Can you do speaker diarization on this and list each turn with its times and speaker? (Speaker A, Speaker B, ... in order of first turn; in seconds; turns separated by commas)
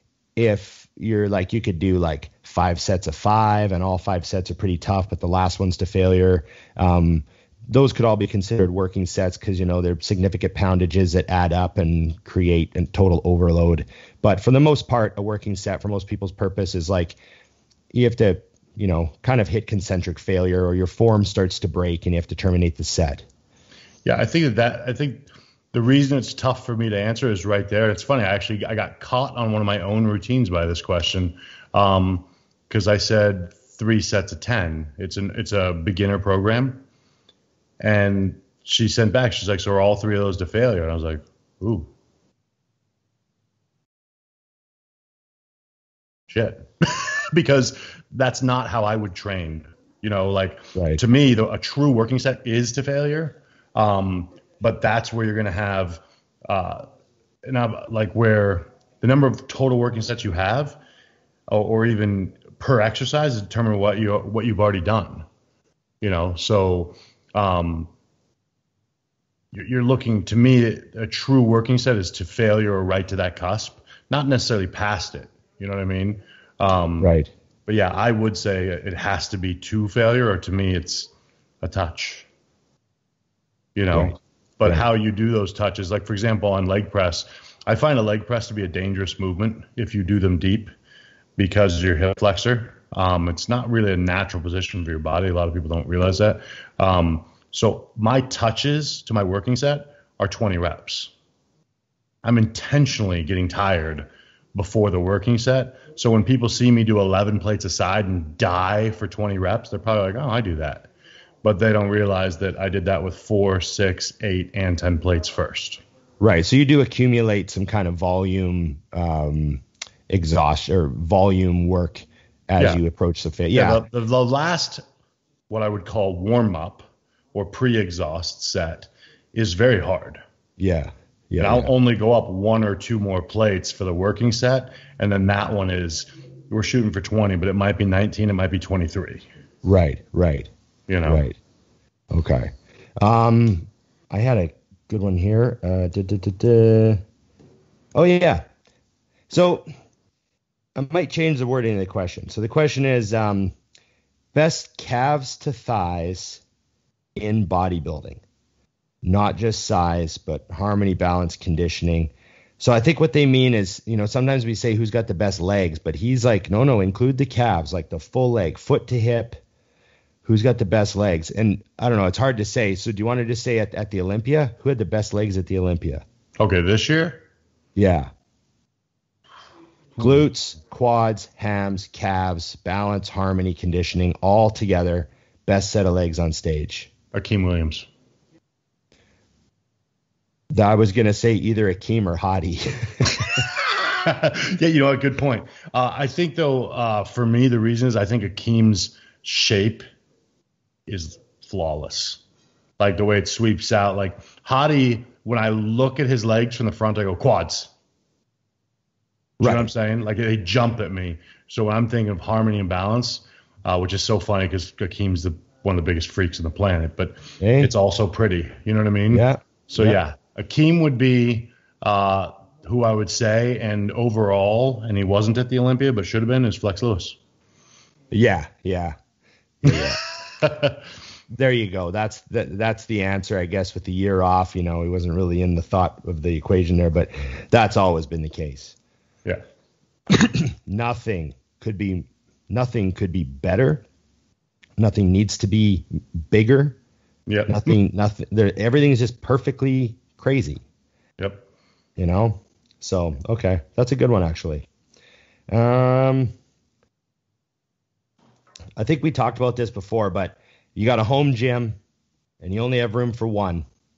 Speaker A: 0.3-17.2, Speaker A: 17.9-23.2, Speaker B: 24.0-36.8, Speaker B: 37.8-41.9, Speaker B: 46.3-56.8, Speaker A: 50.7-51.0, Speaker B: 57.4-60.8, Speaker B: 61.5-65.2, Speaker B: 66.0-67.9, Speaker B: 69.5-77.1, Speaker A: 77.0-77.3, Speaker B: 77.7-82.3, Speaker B: 83.7-90.7, Speaker A: 83.9-84.8, Speaker B: 91.4-101.1, Speaker B: 102.2-110.9, Speaker B: 111.4-115.8, Speaker A: 116.2-123.8, Speaker B: 123.5-124.8, Speaker B: 125.5-130.2, Speaker A: 130.6-131.7, Speaker B: 131.4-139.2, Speaker A: 139.6-140.5, Speaker B: 140.9-141.2, Speaker A: 141.0-141.3, Speaker A: 142.1-147.0, Speaker A: 147.9-148.4, Speaker A: 149.3-149.7, Speaker A: 150.7-153.5, Speaker A: 154.3-156.4, Speaker A: 157.2-158.2, Speaker A: 159.0-169.4, Speaker A: 170.2-176.0, Speaker B: 176.4-177.2, Speaker A: 177.8-178.1, Speaker A: 180.0-186.9, Speaker B: 187.1-187.9, Speaker A: 190.5-193.4, Speaker B: 193.4-199.8, Speaker B: 200.9-202.2, Speaker B: 202.8-207.7, Speaker B: 209.4-227.2, Speaker A: 209.4-209.7, Speaker A: 217.4-217.7, Speaker A: 219.1-220.0, Speaker A: 228.1-228.9, Speaker A: 229.6-230.0, Speaker B: 229.7-230.8, Speaker A: 231.3-238.7, Speaker A: 240.1-243.8, Speaker A: 244.8-246.8, Speaker B: 247.3-247.7, Speaker A: 247.5-250.6, Speaker B: 251.2-251.4, Speaker A: 252.0-254.7, Speaker A: 255.5-256.3, Speaker A: 258.8-261.8, Speaker A: 262.4-263.6